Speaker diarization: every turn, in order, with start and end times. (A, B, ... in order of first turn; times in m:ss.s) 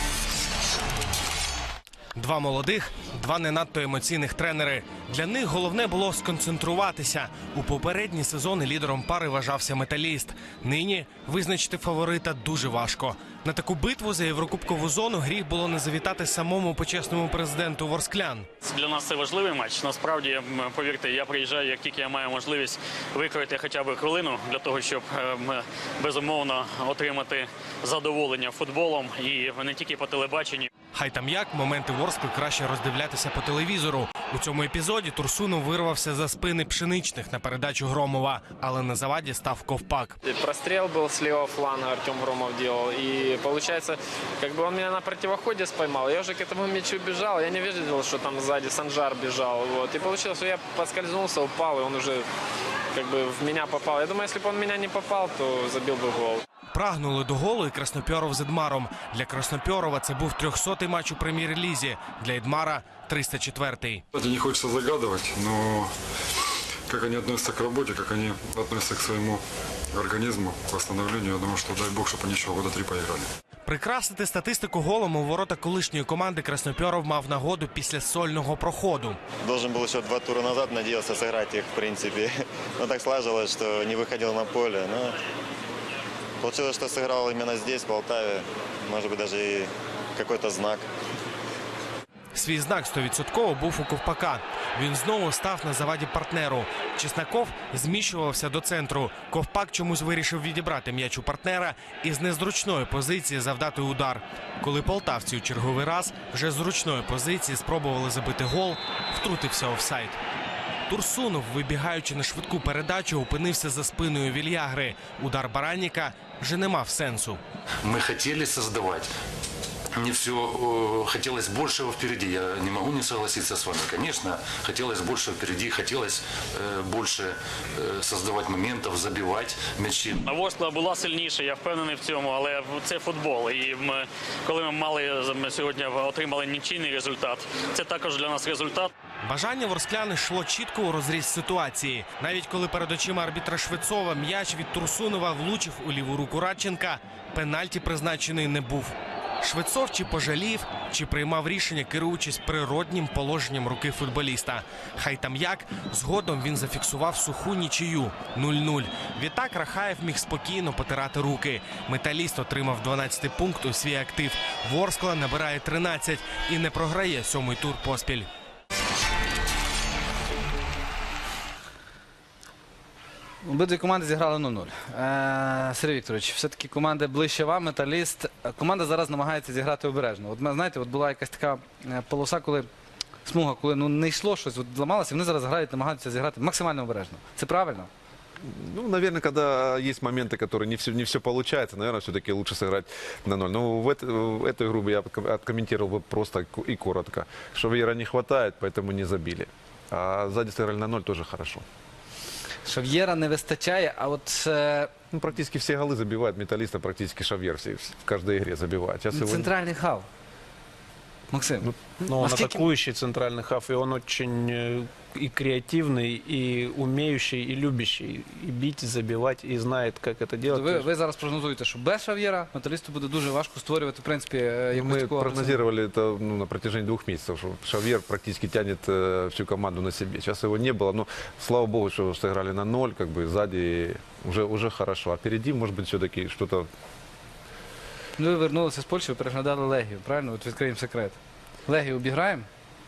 0:02.2-0:18.5 A
0:18.6-0:30.7 B
0:30.9-0:40.2 A
0:40.2-0:52.3 C
0:52.9-0:56.4 C
0:56.7-1:04.0 A
1:04.1-1:05.9 D
1:06.9-1:09.4 D
1:09.9-1:13.3 D
1:13.6-1:19.2 A
1:19.4-1:25.2 E
1:26.4-1:30.9 E
1:32.3-1:50.2 A
1:50.9-1:57.4 A
1:57.8-1:59.1 F
1:59.9-2:10.2 F
2:10.2-2:18.9 B
2:19.2-2:48.3 A
2:53.4-3:02.7 G
3:03.2-3:07.9 G
3:08.4-3:21.6 H
3:22.6-3:24.9 G
3:25.1-3:29.5 H
3:29.1-3:30.1 G
3:31.3-3:32.6 G
3:32.0-3:40.9 I
3:40.5-3:45.6 G
3:44.7-3:56.7 H
3:58.2-4:02.5 G